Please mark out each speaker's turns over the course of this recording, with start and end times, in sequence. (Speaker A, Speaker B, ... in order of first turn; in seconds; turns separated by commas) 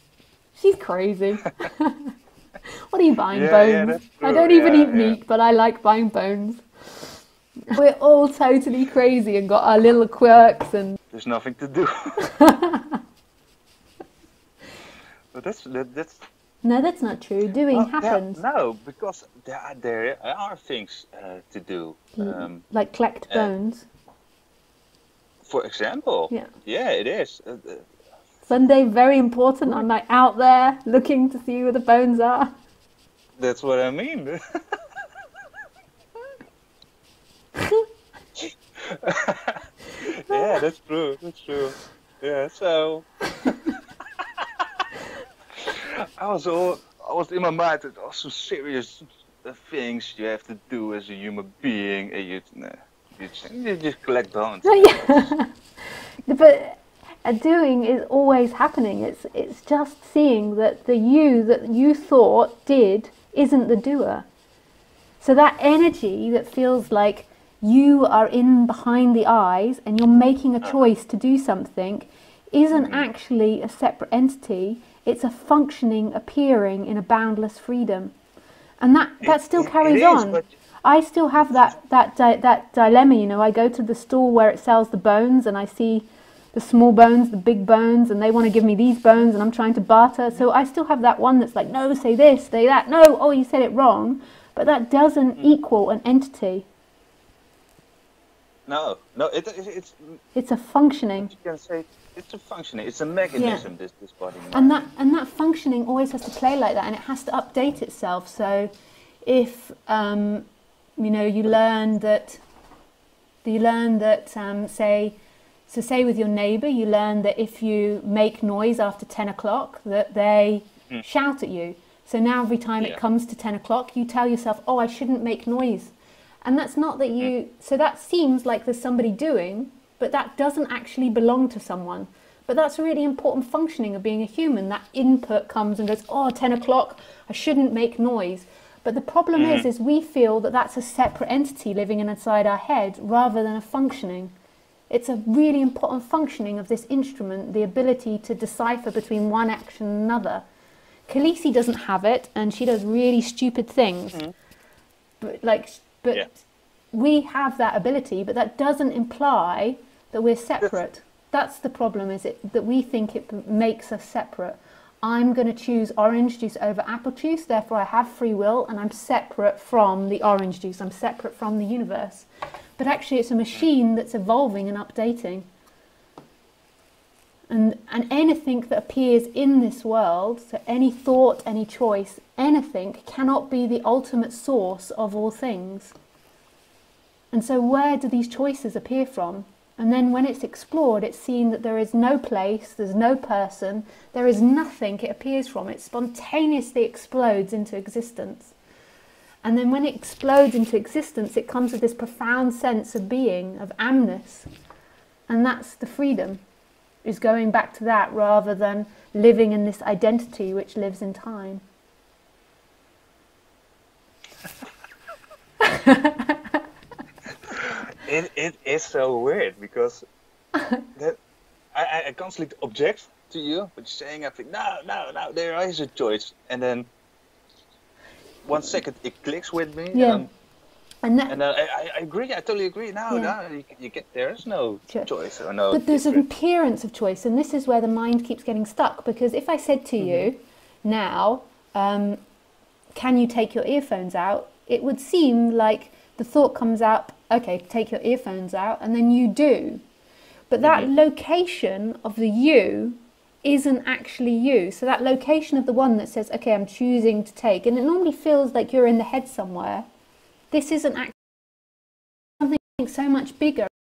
Speaker A: 0.6-2.1, Speaker A: 2.7-7.1, Speaker B: 3.3-5.2, Speaker A: 7.6-11.0, Speaker B: 11.1-12.2, Speaker A: 12.2-13.0, Speaker B: 15.3-16.3, Speaker A: 16.6-18.4, Speaker B: 17.7-22.6, Speaker A: 22.2-23.9, Speaker B: 25.4-27.9, Speaker A: 28.5-32.5, Speaker B: 33.4-34.4, Speaker A: 37.6-37.8, Speaker B: 38.4-44.7, Speaker B: 45.6-55.3, Speaker A: 54.6-64.3, Speaker A: 65.2-78.1, Speaker B: 72.7-73.1, Speaker A: 78.8-96.7, Speaker B: 79.2-80.5, Speaker B: 81.4-81.7, Speaker B: 98.7-100.2, Speaker A: 100.3-101.3, Speaker B: 101.2-104.8, Speaker A: 103.4-103.7, Speaker A: 104.5-108.7, Speaker A: 109.2-112.4, Speaker A: 113.4-115.2, Speaker A: 115.7-144.3, Speaker B: 139.3-139.7, Speaker A: 144.9-150.4, Speaker A: 151.1-154.2, Speaker A: 155.2-156.4, Speaker A: 156.9-175.5, Speaker A: 177.5-185.9, Speaker A: 187.3-198.6, Speaker A: 199.4-204.5, Speaker A: 205.3-206.4, Speaker A: 207.0-211.6, Speaker A: 215.6-216.5, Speaker B: 217.5-220.1, Speaker B: 221.7-226.9, Speaker B: 228.4-230.3, Speaker A: 229.9-230.3, Speaker A: 231.0-231.4, Speaker B: 231.3-236.3, Speaker A: 233.1-233.3, Speaker A: 235.7-242.2, Speaker B: 240.0-240.3, Speaker A: 242.9-249.8, Speaker A: 250.5-259.9, Speaker B: 250.6-250.9, Speaker A: 260.5-261.4, Speaker A: 262.4-263.7